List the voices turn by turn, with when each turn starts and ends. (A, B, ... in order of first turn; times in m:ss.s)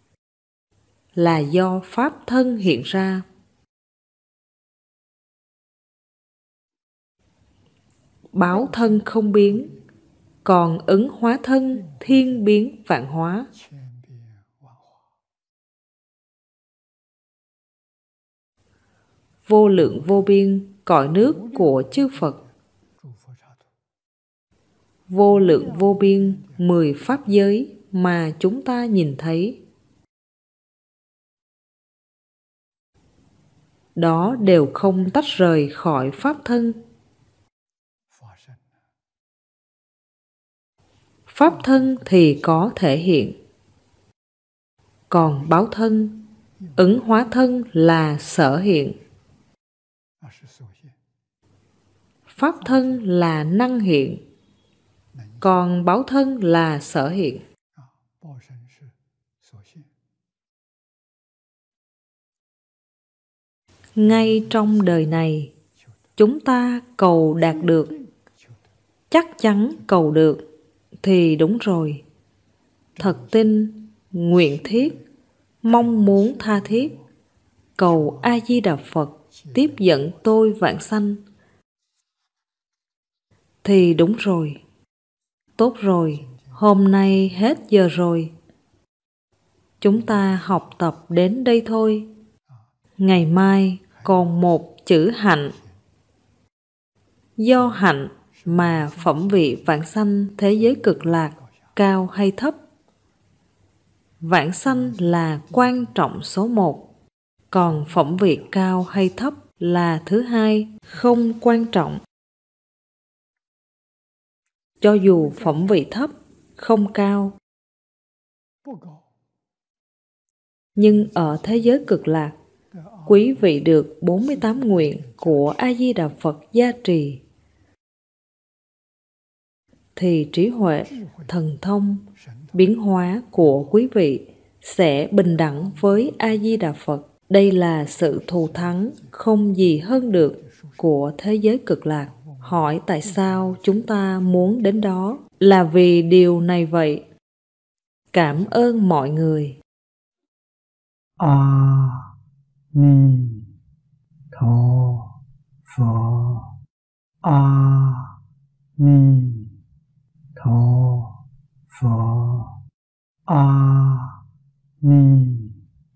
0:01.2-0:03.2 A
0:08.3-0:09.7 A
0:08.5-0:09.8 B
0:10.4-0:13.5 A
0:11.7-0:12.4 B
0:13.5-0:15.1 B
0:19.5-0:22.4 A
0:19.8-0:20.2 B
0:21.2-0:23.7 B
0:25.1-0:29.6 A
0:25.3-0:27.4 B
0:34.0-0:36.8 A
0:38.1-0:38.8 B
0:41.3-0:43.3 A
0:41.4-0:42.7 B
0:45.1-0:49.0 A
0:46.6-0:47.1 B
0:50.2-0:51.0 B
0:52.3-0:54.2 A
0:52.6-0:53.0 B
0:55.1-0:55.6 B
0:55.4-0:57.4 A
0:57.7-0:59.9 B
1:04.0-1:05.5 A
1:04.0-1:06.0 B
1:06.2-1:07.9 A
1:07.4-1:08.7 B
1:09.1-1:10.4 A
1:11.0-1:12.0 A
1:13.0-1:13.5 B
1:13.0-1:15.0 A
1:14.4-1:15.0 B
1:15.6-1:16.9 A
1:15.8-1:17.1 B
1:17.8-1:21.2 A
1:17.8-1:18.7 B
1:19.3-1:20.3 B
1:23.6-1:24.6 A
1:25.6-1:28.3 A
1:26.2-1:27.6 B
1:29.8-1:32.1 A
1:30.0-1:30.7 B
1:33.0-1:35.5 A
1:33.9-1:34.5 B
1:35.6-1:35.8 B
1:37.4-1:42.6 A
1:37.6-1:37.8 B
1:38.3-1:39.8 B
1:40.4-1:41.7 B
1:44.2-1:46.8 A
1:44.6-1:45.9 B
1:47.5-1:52.0 A
1:47.6-1:49.2 B
1:54.8-1:57.3 A
1:55.0-1:55.8 B
1:58.6-1:59.1 B
2:00.8-2:02.3 A
2:00.9-2:02.0 B
2:02.7-2:05.6 B
2:03.1-2:07.2 A
2:10.0-2:27.0 A
2:10.8-2:11.4 B
2:12.1-2:12.7 B
2:13.4-2:13.8 B
2:15.4-2:16.5 B
2:18.0-2:21.0 B
2:22.1-2:25.0 B
2:28.1-2:29.6 A
2:31.2-2:32.1 B
2:32.7-2:33.6 B
2:34.3-2:36.5 B
2:37.2-2:38.2 B
2:38.8-2:39.6 B
2:40.4-2:42.6 B
2:43.3-2:44.2 B
2:44.8-2:45.6 B